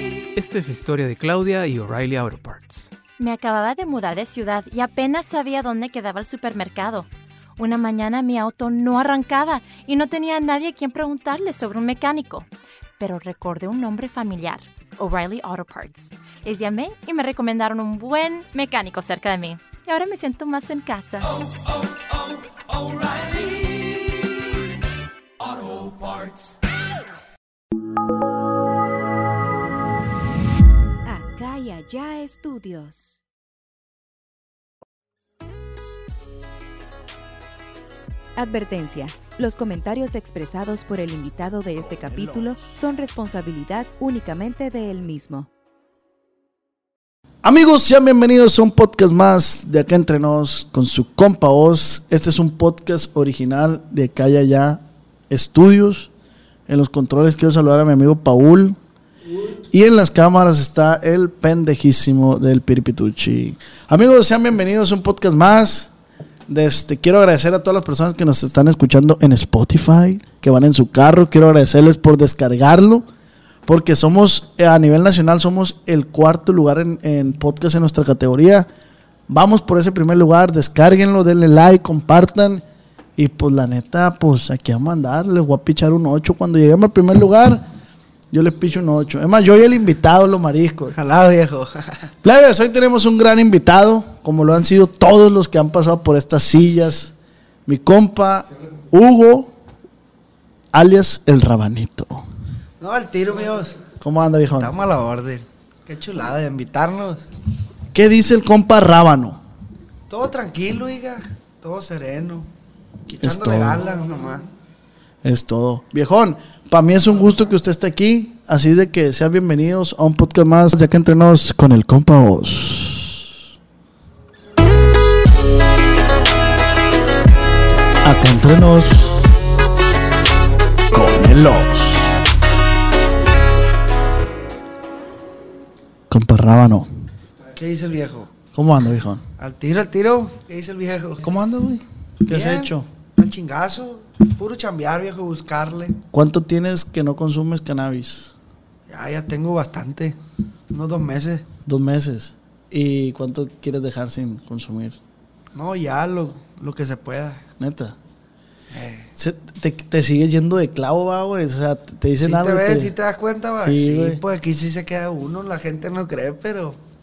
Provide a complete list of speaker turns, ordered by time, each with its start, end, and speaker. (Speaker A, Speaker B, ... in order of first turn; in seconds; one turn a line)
Speaker A: 0.3-2.9
Speaker B: 3.2-12.4
Speaker B: 13.0-21.5
Speaker C: 31.1-33.2
Speaker C: 38.4-45.5
Speaker D: 41.8-42.7
Speaker D: 47.4-56.1
Speaker D: 56.7-58.8
Speaker D: 59.7-65.9
Speaker D: 66.5-73.1
Speaker D: 73.7-78.7
Speaker D: 79.3-82.6
Speaker D: 83.2-87.7
Speaker D: 88.3-91.0
Speaker E: 90.9-92.1
Speaker D: 92.2-97.1
Speaker D: 97.7-99.5
Speaker D: 100.7-102.2
Speaker E: 102.8-103.8
Speaker D: 104.0-104.7
Speaker E: 104.6-107.3
Speaker D: 107.9-109.4
Speaker E: 110.1-112.5
Speaker E: 113.1-114.4
Speaker D: 113.2-113.8
Speaker D: 115.2-123.3
Speaker D: 128.0-129.3
Speaker D: 130.9-132.1
Speaker D: 136.1-136.9
Speaker E: 137.6-138.3
Speaker D: 138.5-139.2
Speaker E: 139.4-141.3
Speaker D: 141.2-142.9
Speaker E: 142.3-146.0
Speaker D: 146.1-148.3
Speaker E: 148.9-150.2
Speaker E: 150.7-151.5
Speaker D: 151.7-155.0
Speaker E: 155.5-157.4
Speaker D: 157.6-158.0
Speaker E: 158.7-159.1
Speaker D: 159.2-162.9
Speaker E: 162.2-166.8
Speaker D: 163.7-164.2